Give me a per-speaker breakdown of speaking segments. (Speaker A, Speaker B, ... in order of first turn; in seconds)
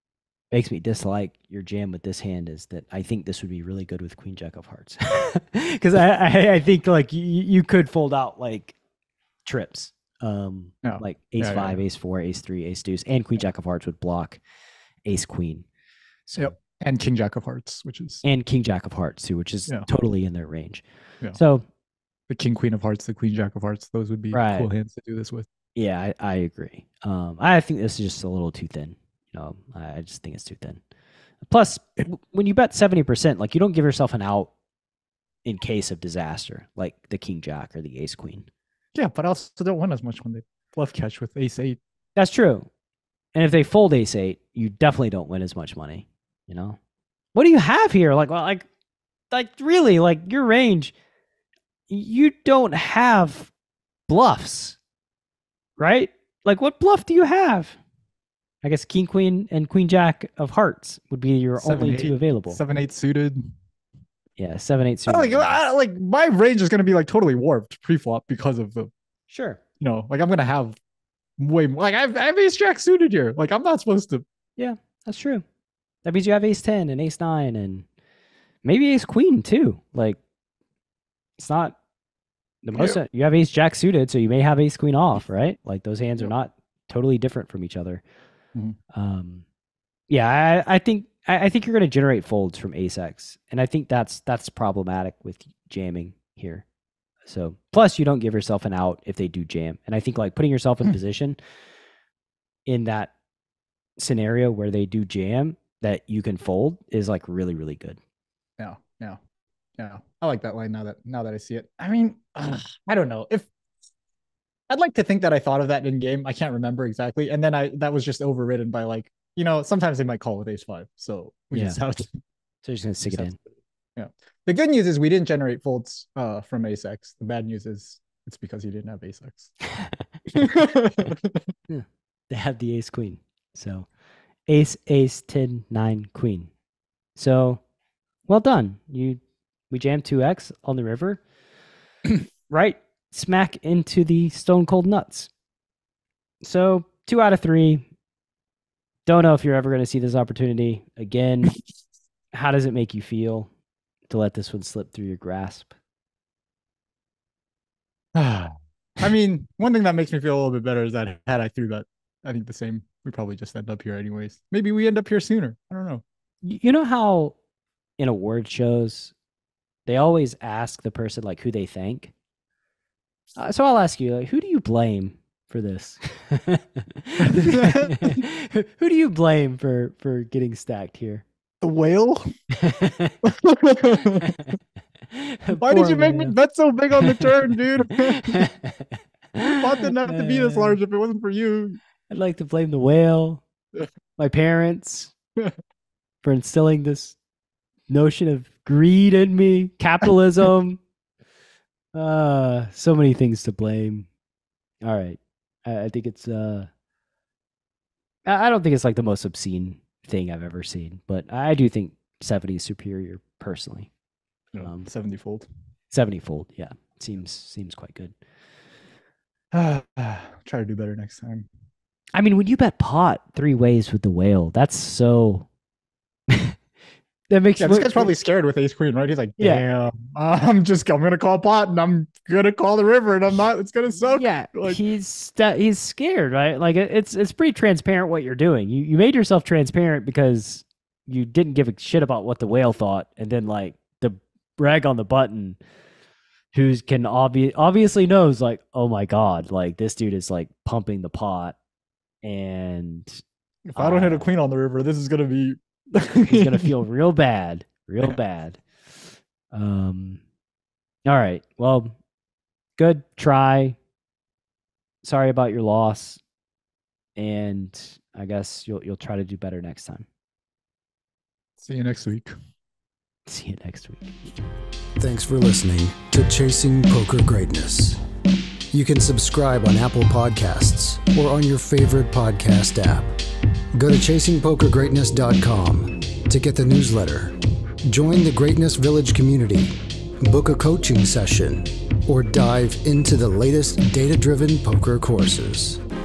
Speaker A: 0.5-8.8, 9.4-14.4, 15.0-15.7, 16.3-16.5, 18.2-20.8, 21.3-21.6, 24.3-24.7, 25.8-30.8, 31.4-34.5, 35.4-38.5, 42.1-42.7, 43.3-46.8, 47.3-48.6, 49.3-50.9, 51.9-53.5, 54.1-54.8, 55.8-57.8, 58.6-62.6, 64.4-65.5, 69.3-69.6, 74.6-75.4, 76.0-77.8, 78.6-80.2, 81.4-81.7, 82.6-88.0, 88.9-89.4, 90.1-96.6, 97.2-101.4, 102.7-103.1, 104.0-108.0, 121.5-121.8, 122.6-123.4, 131.7-133.9, 134.5-136.5, 137.2-137.6, 138.3-141.2, 142.5-145.3, 146.4-147.9, 149.1-151.5, 152.3-153.5, 154.1-155.7, 166.4-167.3, 168.0-169.1, 169.9-172.1, 173.4-181.2, 182.6-183.2, 184.1-184.5, 185.1-186.3, 187.0-187.3, 187.9-190.8, 192.1-193.4, 194.2-195.1, 196.2-197.2, 197.9-200.8, 201.9-204.1, 204.8-206.7, 208.2-213.9, 214.6-214.9, 215.9-218.1, 222.1-225.5, 226.3-226.6, 227.3-228.1, 229.4-229.6, 234.1-245.6, 246.5-251.6, 252.2-253.2, 253.8-254.3, 256.3-258.6, 259.5-260.2, 261.1-261.9, 262.8-263.8, 265.0-266.2, 267.1-270.1, 273.3-274.2
Speaker B: 10.8-11.8, 16.4-18.2, 22.3-25.4, 38.9-41.8, 61.6-63.5, 65.1-68.9, 69.8-70.8, 71.4-74.2, 82.7-83.0, 108.6-109.2, 109.8-113.5, 114.7-122.2, 123.1-123.3, 124.0-129.5, 130.3-131.4, 158.1-166.0, 177.2-178.2, 181.6-182.3, 183.2-184.3, 185.6-188.5, 189.5-191.8, 214.5-215.5, 219.5-221.5, 227.6-234.8, 253.7-256.7, 271.6-272.3
Speaker C: 275.0-278.0, 278.7-283.1, 283.7-287.3, 287.9-295.8